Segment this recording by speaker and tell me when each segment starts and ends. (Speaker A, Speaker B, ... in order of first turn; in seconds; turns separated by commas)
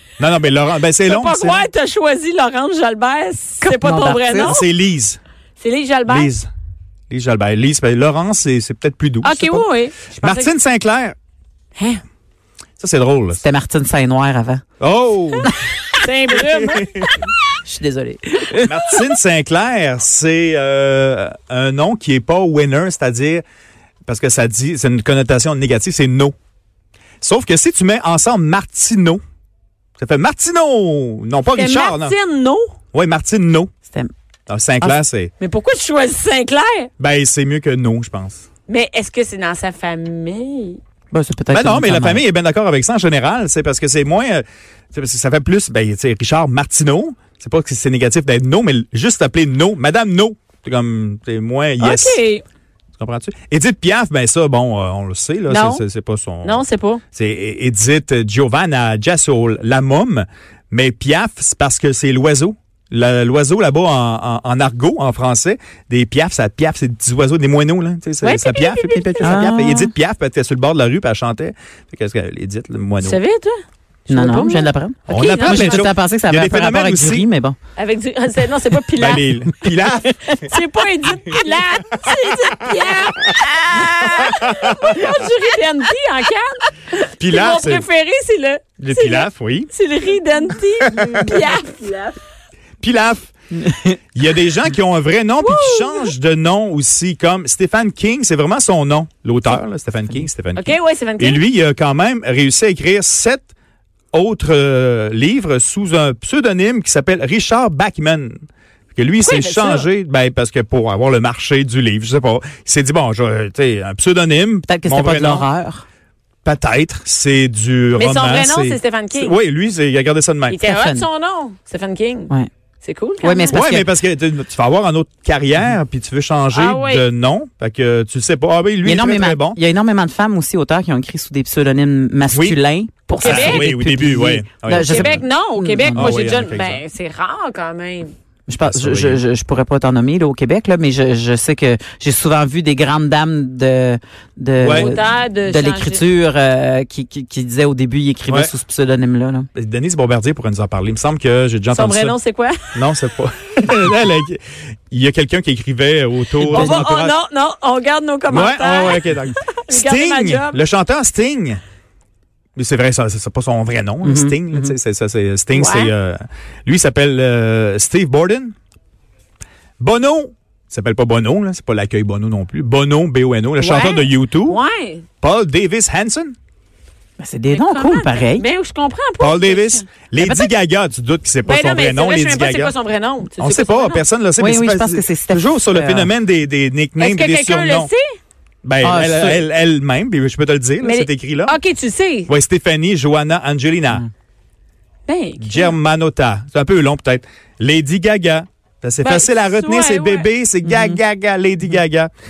Speaker A: 0.2-1.6, Speaker B: 1.1-4.7, Speaker C: 3.6-4.5, Speaker A: 4.4-5.2, Speaker B: 5.6-6.3, Speaker A: 6.1-6.5, Speaker A: 7.1-9.7, Speaker B: 9.2-10.5, Speaker A: 10.2-11.2, Speaker B: 11.8-12.0, Speaker A: 12.8-13.4, Speaker C: 13.3-14.6, Speaker A: 14.8-15.5, Speaker B: 16.0-17.1, Speaker A: 16.3-17.1, Speaker C: 17.6-19.0, Speaker A: 18.6-23.4, Speaker A: 24.1-26.3, Speaker A: 27.2-29.2, Speaker A: 30.0-32.2, Speaker B: 31.5-32.7, Speaker A: 32.9-33.7, Speaker A: 34.5-35.3, Speaker B: 35.4-36.9, Speaker A: 37.0-38.4, Speaker B: 38.7-40.8, Speaker C: 41.1-42.2, Speaker A: 41.5-52.2, Speaker B: 51.8-52.4, Speaker A: 53.0-56.6, Speaker B: 55.5-55.8, Speaker B: 56.4-57.0, Speaker A: 57.1-73.2, Speaker B: 68.2-69.5, Speaker C: 69.2-69.9, Speaker B: 73.0-75.9, Speaker C: 74.1-77.6, Speaker A: 75.1-77.3, Speaker B: 77.8-79.2, Speaker A: 79.0-80.3, Speaker B: 80.3-92.1, Speaker A: 84.8-85.1, Speaker A: 87.2-87.8, Speaker A: 88.8-89.7, Speaker A: 90.8-91.4, Speaker A: 92.8-93.3, Speaker C: 93.6-94.0, Speaker A: 94.1-103.5, Speaker B: 95.4-96.1, Speaker B: 100.5-101.4, Speaker A: 104.1-108.4, Speaker A: 108.9-115.5, Speaker B: 109.2-109.9, Speaker C: 114.7-115.8, Speaker A: 116.4-120.6, Speaker B: 118.0-119.3, Speaker B: 120.5-123.6, Speaker C: 120.6-121.0, Speaker C: 123.2-123.9, Speaker A: 123.5-129.6, Speaker B: 126.5-127.0, Speaker C: 128.8-136.2, Speaker A: 132.3-132.6, Speaker B: 133.1-133.7, Speaker A: 133.2-135.2, Speaker B: 134.7-138.1, Speaker A: 135.9-136.8, Speaker C: 138.5-149.5, Speaker A: 138.6-139.2, Speaker A: 144.6-144.9, Speaker B: 144.7-146.0, Speaker A: 148.3-148.5, Speaker A: 149.5-152.2, Speaker B: 151.7-152.6, Speaker A: 152.7-157.2, Speaker C: 156.5-156.8, Speaker B: 156.5-160.6, Speaker A: 158.3-161.6, Speaker A: 162.6-168.5, Speaker C: 164.0-164.7, Speaker B: 165.5-165.9, Speaker A: 169.8-174.6, Speaker B: 173.6-175.0, Speaker A: 175.2-176.3, Speaker C: 177.2-178.4, Speaker B: 177.5-179.9, Speaker A: 179.2-182.7, Speaker B: 181.4-184.0, Speaker A: 183.4-187.9, Speaker C: 184.4-186.1, Speaker B: 187.0-188.1, Speaker A: 188.6-191.6, Speaker C: 188.8-189.4, Speaker B: 190.8-192.3, Speaker A: 192.3-194.1, Speaker B: 195.1-195.7, Speaker A: 195.4-202.1, Speaker B: 199.0-200.3, Speaker C: 200.6-201.0